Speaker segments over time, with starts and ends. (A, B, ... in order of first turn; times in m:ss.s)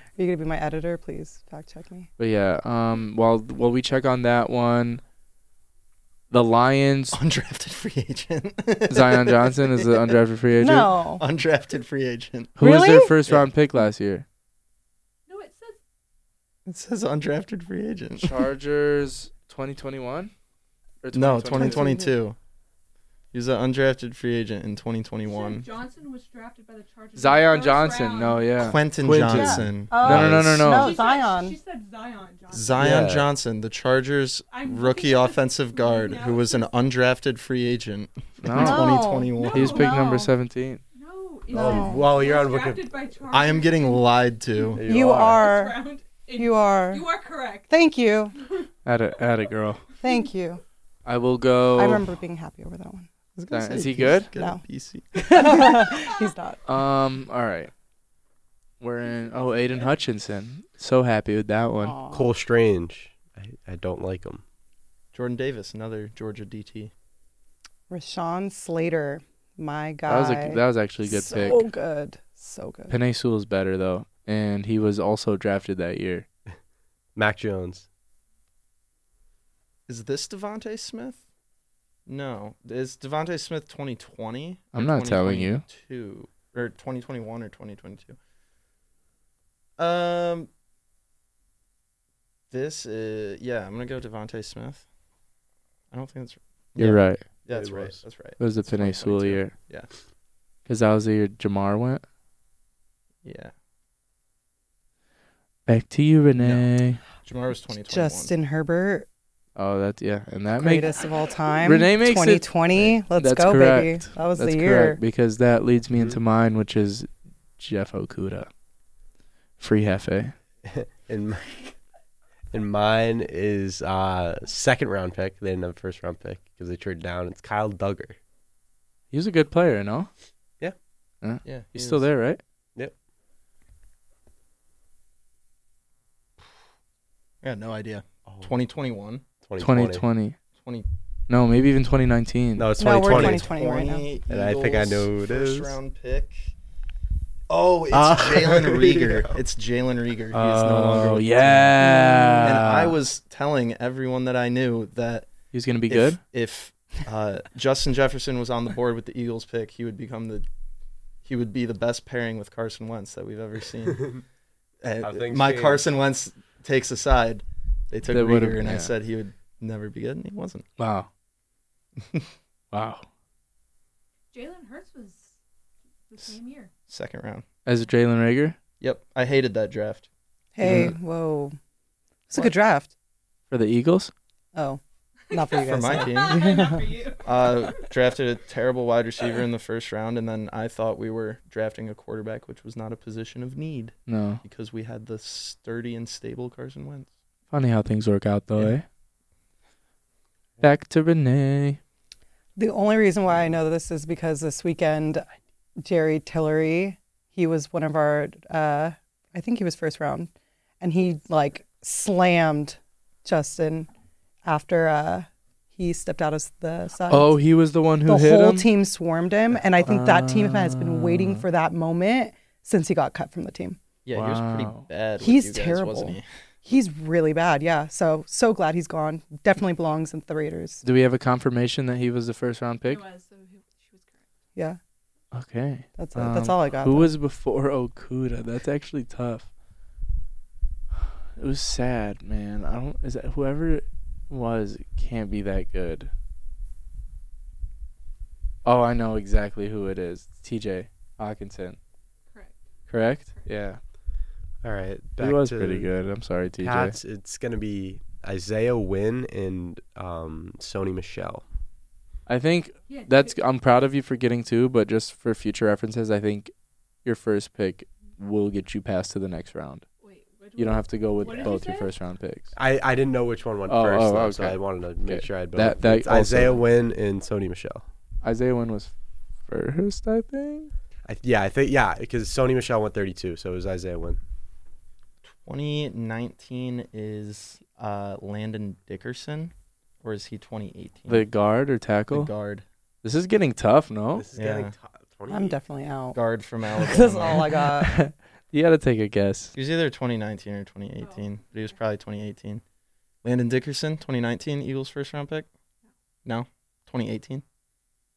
0:00.2-0:02.1 A
0:02.2-0:05.0 B
0:06.3-0:07.2 B
0:07.1-0:10.1 C
0:08.9-0:10.9 B
0:10.6-0:11.2 A
0:11.2-0:12.6 C
0:12.6-0:14.2 B
0:12.6-0:13.2 A
0:15.3-0:15.8 D
0:16.6-0:18.4 C
0:18.2-0:20.3 B
0:21.0-0:21.9 B
0:21.1-0:22.4 C
0:21.5-0:22.2 A
0:23.3-0:25.6 C
0:25.2-0:28.5 D
0:27.2-0:31.0 B
0:28.6-0:30.4 C
0:29.0-0:30.6 E
0:29.2-0:31.6 A
0:30.6-0:32.9 D
0:32.5-0:39.9 C
0:32.8-0:33.3 E
0:34.5-0:36.7 D
0:38.4-0:40.8 B
0:38.5-0:40.3 A
0:39.3-0:40.2 D
0:40.9-0:44.1 D
0:41.5-0:42.1 A
0:41.5-0:42.9 E
0:43.3-0:44.8 C
0:44.6-0:47.7 D
0:44.8-0:45.5 E
0:44.8-0:45.8 A
0:46.4-0:47.1 A
0:47.7-0:48.4 A
0:48.4-0:48.7 D
0:48.8-0:49.8 B
0:50.0-0:50.6 A
0:51.0-0:52.1 B
0:51.7-0:53.1 A
0:53.4-0:55.6 C
0:53.5-0:54.3 B
0:54.3-0:54.6 A
0:55.1-0:56.6 A
0:56.6-0:57.7 B
0:58.8-1:02.0 B
1:01.8-1:02.3 A
1:02.1-1:04.4 E
1:05.1-1:06.9 C
1:07.9-1:12.9 A
1:10.1-1:11.6 B
1:12.9-1:16.2 B
1:17.1-1:17.8 E
1:19.9-1:21.2 C
1:22.0-1:28.2 C
1:24.7-1:25.7 B
1:29.8-1:30.5 C
1:32.5-1:34.8 C
1:35.9-1:39.9 C
1:36.8-1:37.2 B
1:37.5-1:38.0 E
1:38.4-1:39.5 B
1:40.7-1:42.0 B
1:43.2-1:43.5 C
1:45.7-1:47.0 B
1:46.4-1:46.7 C
1:47.2-1:48.3 C
1:47.9-1:49.1 A
1:49.6-1:50.9 B
1:50.6-1:55.0 A
1:51.6-1:52.5 B
1:53.1-1:57.1 B
1:57.6-1:58.5 B
1:59.6-2:00.3 B
2:00.6-2:01.6 E
2:02.5-2:08.2 E
2:09.1-2:10.1 B
2:11.2-2:12.4 B
2:11.4-2:12.0 C
2:17.4-2:19.2 C
2:19.4-2:20.0 E
2:19.6-2:20.4 B
2:20.6-2:20.9 C
2:21.3-2:22.7 B
2:22.6-2:23.5 E
2:22.8-2:24.1 A
2:23.0-2:26.5 C
2:24.3-2:25.8 E
2:27.5-2:31.7 C
2:27.9-2:29.4 E
2:30.3-2:33.0 B
2:31.8-2:32.5 A
2:32.4-2:35.3 C
2:35.5-2:36.2 B
2:35.9-2:40.4 C
2:41.2-2:44.2 C
2:44.8-2:50.6 C
2:45.0-2:45.8 E
2:48.1-2:48.9 B
2:50.8-2:51.1 B
2:52.7-2:53.0 B
2:54.3-2:55.4 D
2:56.1-2:56.7 D
2:56.9-2:57.4 C
2:57.6-2:58.6 B
2:58.8-3:00.1 C
3:00.5-3:01.6 A
3:00.6-3:00.9 B
3:00.6-3:00.9 C
3:02.3-3:02.9 A
3:03.5-3:04.1 B
3:04.5-3:04.8 A
3:05.3-3:07.8 D
3:05.3-3:06.8 A
3:05.7-3:06.5 C
3:07.2-3:17.1 C
3:14.1-3:14.4 B
3:17.5-3:18.8 B
3:20.6-3:21.8 B
3:22.6-3:25.3 A
3:25.8-3:33.9 A
3:34.4-3:37.3 A
3:37.1-3:38.7 B
3:38.0-3:43.8 A
3:39.8-3:41.4 B
3:44.0-3:46.2 C
3:44.1-3:44.8 B
3:45.2-3:50.8 A
3:50.8-3:53.0 B
3:52.8-3:54.3 D
3:55.3-3:59.5 B
3:56.0-3:57.1 A
4:01.4-4:06.1 B
4:08.6-4:11.8 B
4:12.3-4:12.6 D
4:12.9-4:13.8 B
4:14.6-4:15.9 E
4:15.2-4:16.9 B
4:16.6-4:21.4 E
4:22.3-4:26.5 B
4:22.9-4:23.4 D
4:27.0-4:29.8 B
4:30.0-4:31.9 D
4:30.6-4:32.5 B
4:32.5-4:37.8 E
4:33.7-4:36.6 B
4:38.2-4:38.9 B
4:39.5-4:40.7 B
4:41.0-4:44.2 E
4:45.2-4:51.3 C
4:51.1-4:52.3 B
4:52.1-4:52.6 C
4:53.0-4:54.2 B
4:54.1-4:55.6 E
4:54.4-4:54.7 C
4:55.3-4:56.2 A
4:56.1-4:57.6 C
4:56.7-4:57.9 A
4:57.7-4:59.5 B
4:59.5-5:02.6 C
5:01.0-5:01.8 D
5:03.2-5:05.5 C
5:06.2-5:07.4 C